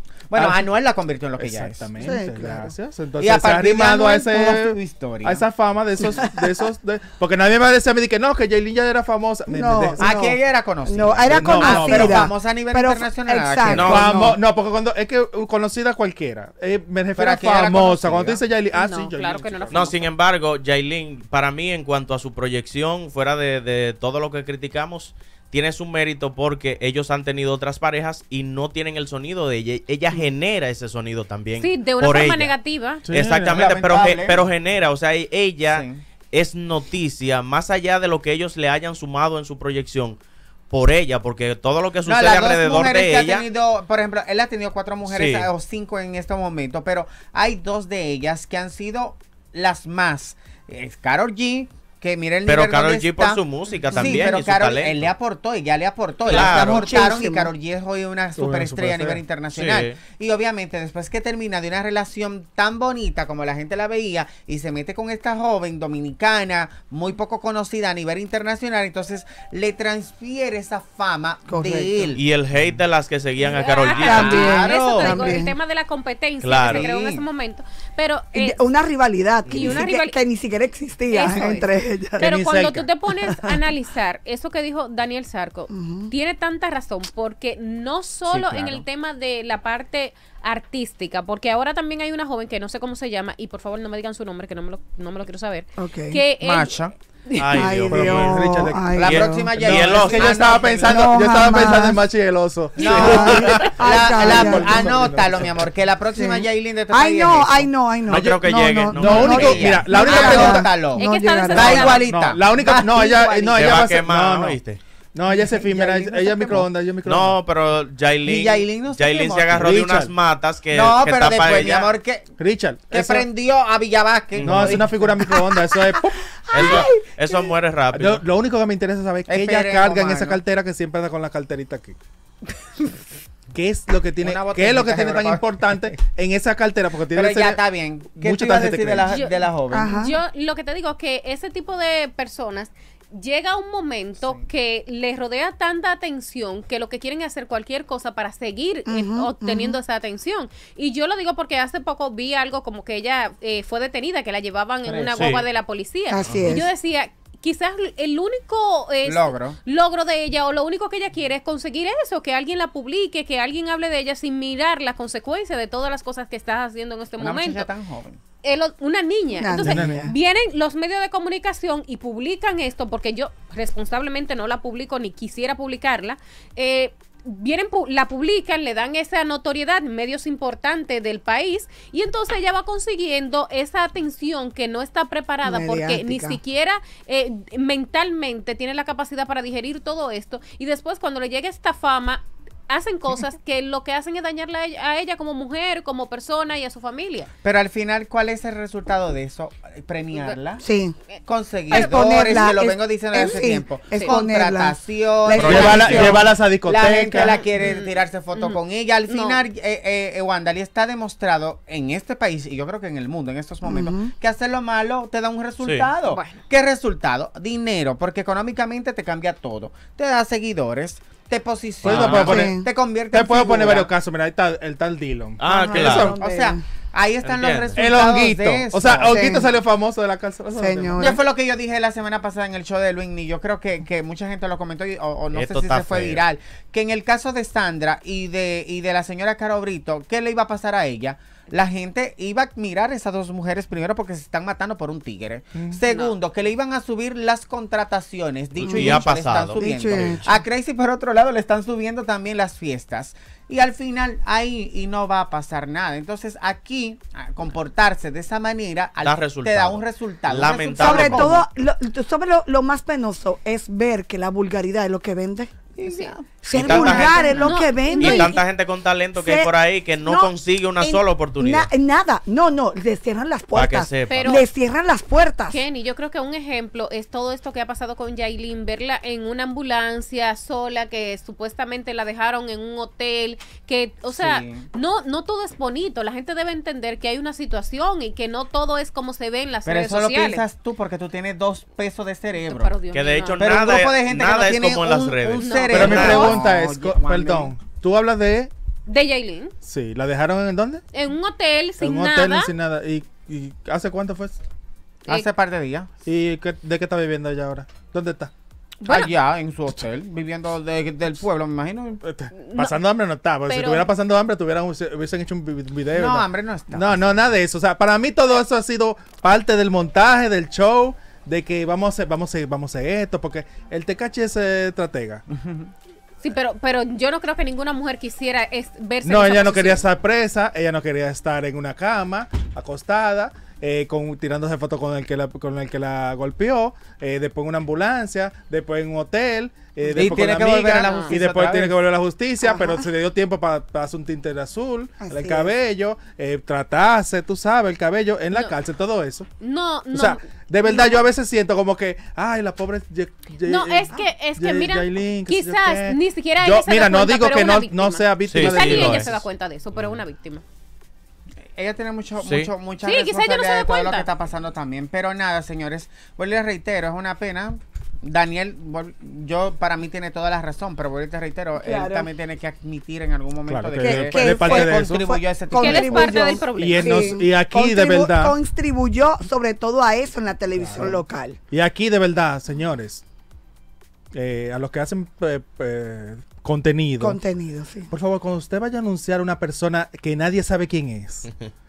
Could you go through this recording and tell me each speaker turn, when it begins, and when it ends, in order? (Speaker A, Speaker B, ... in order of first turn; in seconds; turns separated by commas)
Speaker A: 0.3-1.9, Speaker B: 0.3-0.7, Speaker B: 1.4-10.1, Speaker C: 2.0-2.7, Speaker A: 3.2-5.5, Speaker C: 6.1-6.5, Speaker C: 9.5-14.4, Speaker A: 10.0-14.3, Speaker B: 11.2-12.2, Speaker D: 13.7-14.0, Speaker B: 13.8-20.0, Speaker A: 17.1-18.4, Speaker E: 18.7-20.0, Speaker D: 19.7-32.5, Speaker E: 31.6-33.1, Speaker B: 33.1-33.6, Speaker D: 33.1-40.2, Speaker A: 33.5-34.5, Speaker A: 35.7-36.0, Speaker D: 40.7-43.5, Speaker A: 42.0-72.3, Speaker D: 45.0-45.5, Speaker D: 52.5-55.1, Speaker D: 56.3-57.0, Speaker C: 56.3-57.5, Speaker B: 58.4-59.2, Speaker D: 59.5-60.0, Speaker C: 71.5-72.1, Speaker D: 72.1-74.5, Speaker E: 73.5-78.6, Speaker A: 73.9-75.4, Speaker C: 74.0-75.5, Speaker D: 76.4-76.8, Speaker A: 76.6-77.2, Speaker C: 78.3-82.3, Speaker D: 79.5-79.8, Speaker E: 79.5-80.2, Speaker E: 81.1-96.8, Speaker B: 82.2-82.9, Speaker C: 83.2-83.6, Speaker C: 85.7-86.1, Speaker D: 88.3-88.8, Speaker C: 95.8-96.2, Speaker A: 96.4-96.9, Speaker D: 97.4-98.4, Speaker C: 97.4-99.5, Speaker B: 97.8-98.9, Speaker A: 98.9-101.5, Speaker D: 99.0-100.5, Speaker B: 99.5-105.7, Speaker C: 100.8-102.0, Speaker A: 102.8-107.7, Speaker E: 102.8-103.1, Speaker C: 102.9-105.0, Speaker C: 106.2-112.0, Speaker D: 108.1-109.9, Speaker B: 108.9-110.7, Speaker A: 109.0-113.7, Speaker E: 110.1-112.0, Speaker B: 111.6-114.6, Speaker C: 112.7-113.6, Speaker D: 113.5-114.8, Speaker B: 115.1-117.4, Speaker C: 115.3-116.3, Speaker A: 115.5-116.7, Speaker D: 117.0-121.9, Speaker A: 118.2-119.8, Speaker B: 119.6-120.1, Speaker A: 120.7-122.3, Speaker B: 122.4-123.3, Speaker A: 122.9-125.2, Speaker D: 124.4-124.9, Speaker B: 124.4-126.9, Speaker C: 125.3-127.5, Speaker D: 126.5-128.2, Speaker B: 127.9-132.0, Speaker A: 129.3-130.4, Speaker B: 133.5-137.6, Speaker A: 134.2-135.9, Speaker A: 137.1-139.9, Speaker B: 138.1-139.2, Speaker E: 139.1-167.7, Speaker C: 139.7-140.2, Speaker C: 148.9-149.8, Speaker A: 154.8-155.4, Speaker D: 155.2-155.4, Speaker C: 156.1-156.7, Speaker D: 156.3-156.5, Speaker A: 159.1-159.6, Speaker A: 167.2-168.2, Speaker E: 168.4-197.3, Speaker C: 169.4-170.1, Speaker B: 169.6-170.1, Speaker C: 185.4-186.4, Speaker A: 197.4-200.6, Speaker E: 200.1-200.4, Speaker C: 200.6-201.0, Speaker A: 201.2-223.9, Speaker E: 201.7-202.5, Speaker C: 201.7-206.3, Speaker E: 203.2-204.2, Speaker D: 205.4-206.2, Speaker B: 205.5-207.4, Speaker E: 207.2-209.5, Speaker C: 213.6-214.1, Speaker D: 215.6-215.9, Speaker E: 216.1-216.4, Speaker B: 221.8-226.2, Speaker D: 221.9-222.3, Speaker C: 222.2-222.7, Speaker D: 225.4-226.1, Speaker A: 225.5-229.4, Speaker C: 225.5-226.6, Speaker D: 227.2-227.8, Speaker B: 227.8-231.1, Speaker C: 229.0-229.5, Speaker C: 230.6-231.2, Speaker A: 231.0-261.4, Speaker D: 235.3-236.2, Speaker E: 245.9-246.2, Speaker D: 248.6-250.2, Speaker C: 248.7-250.3, Speaker D: 259.0-261.4, Speaker C: 260.8-265.5, Speaker A: 265.8-267.6, Speaker E: 265.8-266.1, Speaker C: 266.4-268.4, Speaker D: 266.5-271.7, Speaker E: 267.3-268.4, Speaker C: 269.1-275.6, Speaker D: 273.5-274.4, Speaker E: 274.1-274.5, Speaker E: 275.5-290.4, Speaker A: 284.1-284.7, Speaker A: 289.6-292.8, Speaker E: 292.4-293.5, Speaker D: 292.9-296.3, Speaker A: 293.4-297.5, Speaker E: 295.4-296.4, Speaker B: 295.7-298.5, Speaker E: 298.9-299.5, Speaker B: 299.6-300.8, Speaker E: 300.9-302.5, Speaker B: 301.8-304.4, Speaker A: 305.1-305.9, Speaker B: 306.1-308.3, Speaker E: 308.8-309.1, Speaker A: 308.9-312.0, Speaker B: 312.0-325.2, Speaker E: 312.3-312.8, Speaker E: 313.5-313.9, Speaker A: 315.9-317.1, Speaker A: 325.3-325.7, Speaker E: 326.2-329.9, Speaker B: 329.0-349.3, Speaker A: 339.9-341.8, Speaker E: 340.8-341.1, Speaker C: 342.4-342.9, Speaker C: 345.0-345.5, Speaker E: 348.3-348.6, Speaker E: 349.4-350.9, Speaker B: 349.9-359.3, Speaker E: 353.4-360.4, Speaker D: 358.2-359.1, Speaker A: 361.6-376.3, Speaker D: 362.2-362.5, Speaker E: 362.8-364.1, Speaker C: 371.6-372.1, Speaker B: 373.5-375.1, Speaker C: 373.8-381.4, Speaker E: 375.6-377.1, Speaker B: 376.4-378.4, Speaker B: 380.6-383.0, Speaker B: 384.1-387.2, Speaker C: 387.0-387.9, Speaker B: 387.9-391.3